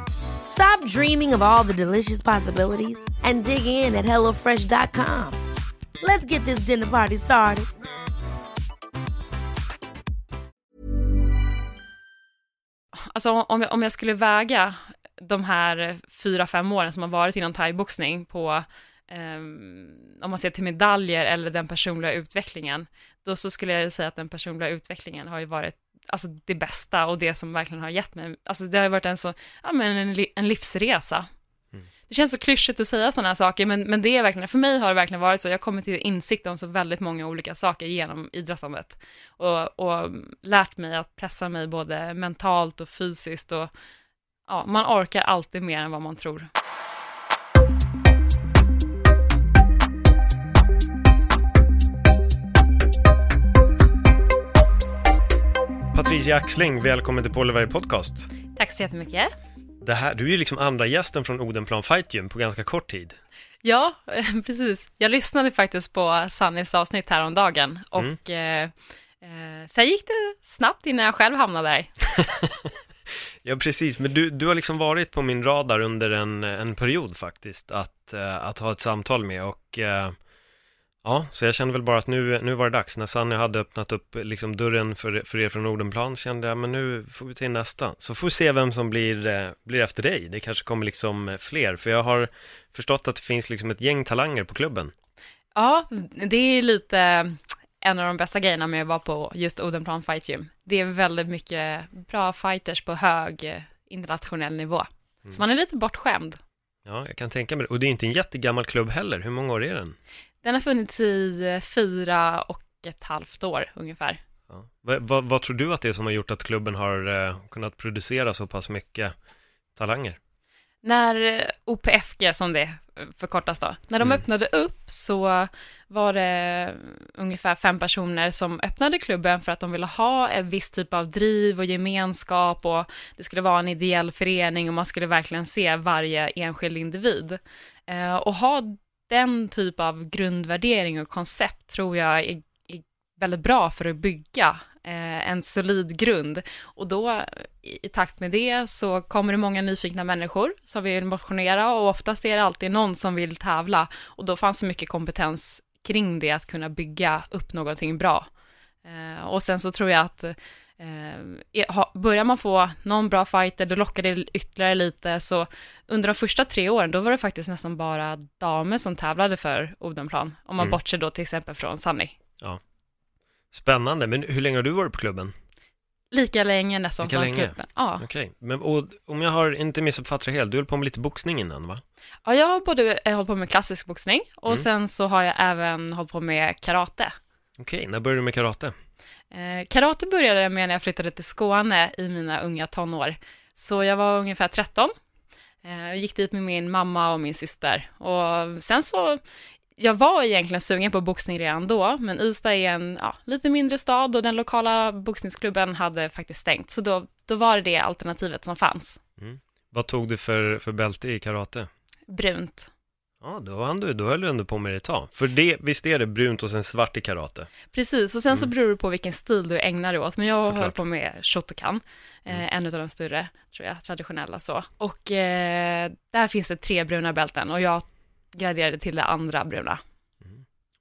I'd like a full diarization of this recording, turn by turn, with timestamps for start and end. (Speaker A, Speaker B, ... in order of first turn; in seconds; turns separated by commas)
Speaker A: 0.5-5.4, Speaker A: 6.0-7.7, Speaker B: 12.9-31.3, Speaker B: 32.1-43.7, Speaker B: 44.5-46.5, Speaker C: 55.9-58.3, Speaker B: 58.5-59.3, Speaker C: 59.8-63.2, Speaker B: 63.6-71.9, Speaker C: 72.2-72.7, Speaker C: 73.4-80.1, Speaker C: 81.0-94.9, Speaker B: 95.5-106.4, Speaker C: 106.8-110.0, Speaker B: 110.4-114.2, Speaker C: 114.5-119.1, Speaker C: 119.8-120.2, Speaker B: 120.8-158.3, Speaker B: 158.8-172.1, Speaker C: 173.5-175.3, Speaker B: 176.1-178.0, Speaker C: 177.0-181.8, Speaker B: 182.2-187.1, Speaker C: 187.6-188.7, Speaker B: 189.3-194.9, Speaker B: 195.6-199.2, Speaker B: 199.8-209.0, Speaker C: 209.2-211.7, Speaker B: 212.1-212.7, Speaker C: 213.2-217.5, Speaker B: 217.7-229.8, Speaker C: 220.4-220.8